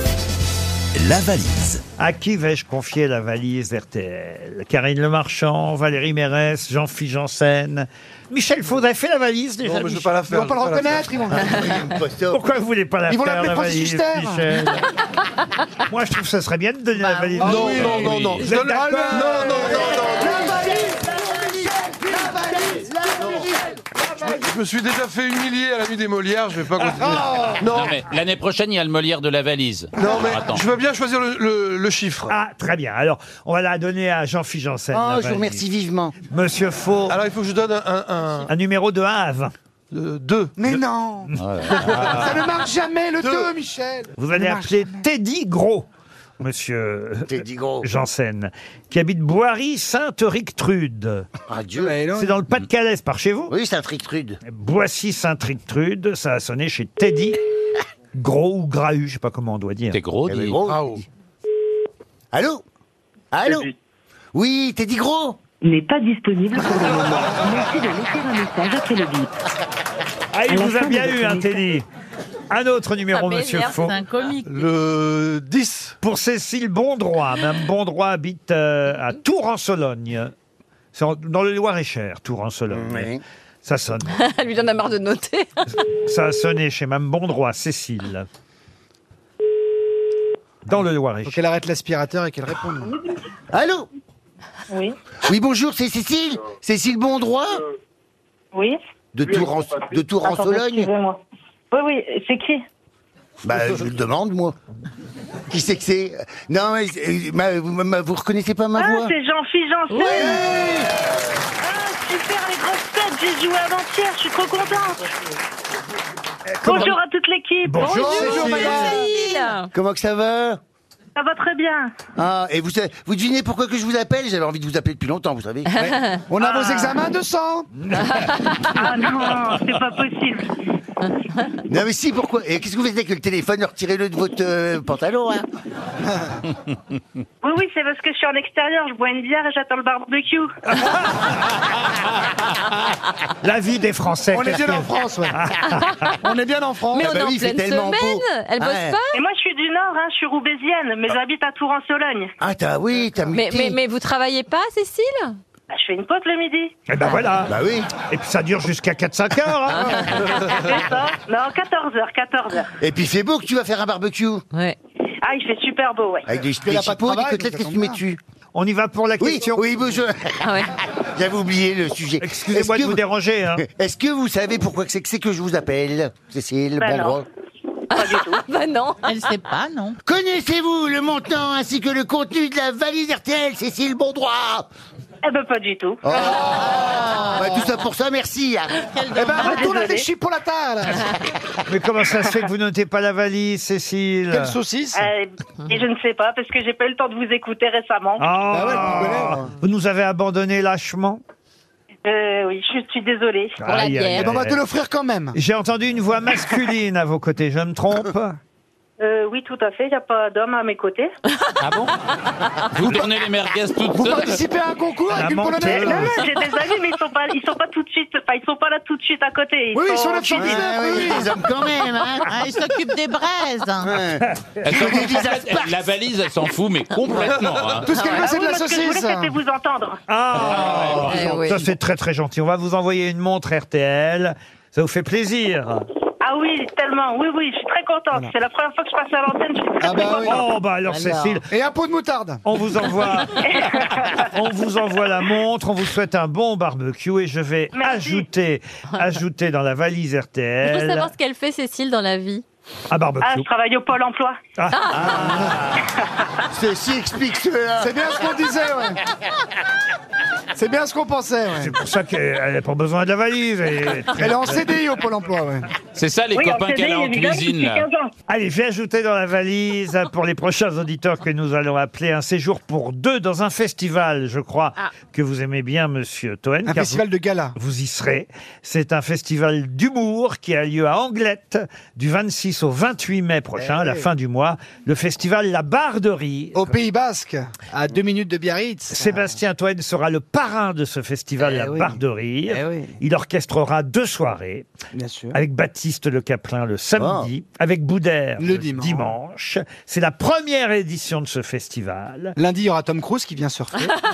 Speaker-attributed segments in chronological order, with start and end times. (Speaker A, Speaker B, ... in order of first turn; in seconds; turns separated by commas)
Speaker A: 1.0-1.8, Speaker B: 2.0-10.1, Speaker C: 9.6-11.6, Speaker D: 10.2-11.7, Speaker A: 11.3-12.4, Speaker B: 12.3-14.9, Speaker D: 13.1-14.5, Speaker B: 15.8-19.7, Speaker D: 17.4-17.9, Speaker C: 17.4-20.6, Speaker E: 17.6-18.5, Speaker D: 18.6-23.5, Speaker A: 19.6-23.6, Speaker C: 24.3-28.0, Speaker E: 27.7-30.7, Speaker C: 29.9-32.3, Speaker B: 32.3-35.6, Speaker A: 34.9-36.1, Speaker B: 36.3-37.2, Speaker C: 37.1-38.5, Speaker B: 38.5-39.5, Speaker C: 39.9-40.8, Speaker D: 40.5-45.0, Speaker E: 41.4-42.4, Speaker B: 44.2-45.9, Speaker B: 46.4-51.3, Speaker A: 47.3-47.9, Speaker A: 51.5-51.9, Speaker D: 51.8-52.4, Speaker B: 52.1-53.5, Speaker A: 53.5-54.4, Speaker B: 54.5-57.4, Speaker B: 58.1-60.0, Speaker E: 59.9-60.6, Speaker A: 60.2-61.0, Speaker C: 60.6-61.0, Speaker A: 62.3-62.6, Speaker A: 63.3-63.7, Speaker A: 64.3-65.4, Speaker F: 65.6-69.3, Speaker B: 70.3-71.8, Speaker F: 70.5-71.5, Speaker B: 72.5-74.0, Speaker G: 73.1-73.8, Speaker H: 73.8-74.4, Speaker C: 74.4-75.9, Speaker B: 76.0-80.3, Speaker B: 80.9-83.1, Speaker A: 82.7-83.2, Speaker B: 83.6-84.2, Speaker G: 84.1-85.5, Speaker B: 85.8-88.3, Speaker B: 90.6-91.4, Speaker D: 91.2-93.0, Speaker A: 93.5-93.9, Speaker I: 94.7-95.0, Speaker A: 95.2-97.6, Speaker A: 99.1-100.9, Speaker I: 100.2-101.2, Speaker I: 101.7-102.6, Speaker A: 103.4-104.5, Speaker A: 105.5-109.1, Speaker I: 108.8-110.3, Speaker G: 109.9-110.5, Speaker D: 110.3-110.6, Speaker I: 111.6-115.1, Speaker I: 116.6-118.6, Speaker B: 117.6-119.0, Speaker D: 117.8-119.0, Speaker G: 118.4-119.7, Speaker A: 119.7-120.6, Speaker I: 121.2-121.9, Speaker A: 122.2-125.7, Speaker D: 125.8-127.9, Speaker I: 126.4-127.0, Speaker B: 127.9-128.5, Speaker G: 128.1-128.6, Speaker I: 128.6-130.5, Speaker A: 131.7-135.5, Speaker I: 137.4-140.6, Speaker B: 143.4-146.1, Speaker D: 144.3-145.4, Speaker D: 146.2-147.1, Speaker G: 146.9-149.2, Speaker A: 146.9-148.9, Speaker I: 149.1-152.3, Speaker A: 152.4-153.8, Speaker G: 153.3-155.3, Speaker I: 155.7-156.7, Speaker B: 156.9-160.2, Speaker A: 157.5-157.9, Speaker A: 159.9-160.2, Speaker I: 160.4-162.7, Speaker A: 162.8-164.4, Speaker I: 165.2-166.2, Speaker A: 166.3-168.2, Speaker D: 166.6-168.0, Speaker B: 168.5-169.6, Speaker A: 169.2-173.0, Speaker G: 170.4-170.7, Speaker B: 172.2-173.6, Speaker A: 173.6-177.2, Speaker I: 176.8-177.2, Speaker G: 177.9-179.1, Speaker I: 177.9-178.4, Speaker H: 179.0-180.0, Speaker A: 180.0-184.7, Speaker I: 185.2-186.9, Speaker A: 186.0-188.8, Speaker H: 187.0-187.3, Speaker H: 188.9-189.6, Speaker D: 189.1-191.1, Speaker I: 189.5-190.1, Speaker B: 191.7-194.5, Speaker D: 194.3-195.1, Speaker I: 194.9-198.3, Speaker B: 198.2-201.2, Speaker D: 198.5-199.4, Speaker I: 202.1-203.6, Speaker B: 203.6-204.6, Speaker G: 203.7-204.3, Speaker D: 204.2-205.4, Speaker B: 205.3-208.4, Speaker I: 209.0-211.1, Speaker E: 211.6-211.9, Speaker E: 212.7-214.4, Speaker D: 213.9-216.4, Speaker B: 215.1-216.2, Speaker I: 215.7-220.6, Speaker D: 219.7-221.4, Speaker A: 220.3-222.3, Speaker H: 222.3-223.9, Speaker A: 223.8-225.8, Speaker E: 224.6-227.9, Speaker C: 227.1-227.8, Speaker G: 227.8-228.2, Speaker D: 227.8-229.4, Speaker I: 228.1-230.0, Speaker B: 230.1-235.8, Speaker A: 230.5-231.3, Speaker E: 230.6-230.9, Speaker G: 231.0-231.6, Speaker I: 236.2-240.4, Speaker D: 239.8-240.4, Speaker B: 240.1-241.5, Speaker G: 240.9-241.4, Speaker D: 241.5-242.4, Speaker B: 242.4-251.1, Speaker I: 243.4-244.2, Speaker I: 247.7-248.2, Speaker G: 250.6-252.4, Speaker B: 252.9-253.4, Speaker I: 253.2-254.4, Speaker B: 254.6-255.8, Speaker A: 255.0-255.8, Speaker A: 256.5-258.2, Speaker D: 257.8-259.0, Speaker D: 260.5-261.7, Speaker B: 261.6-264.6, Speaker D: 264.1-265.7, Speaker E: 265.9-267.9, Speaker I: 266.3-268.1, Speaker B: 268.3-277.0, Speaker D: 276.6-277.5, Speaker B: 277.6-286.7, Speaker D: 286.5-289.3, Speaker B: 288.9-294.7, Speaker D: 291.4-293.0, Speaker D: 294.9-295.4, Speaker B: 295.3-302.4, Speaker A: 297.0-297.3, Speaker D: 298.4-299.1, Speaker D: 302.4-303.9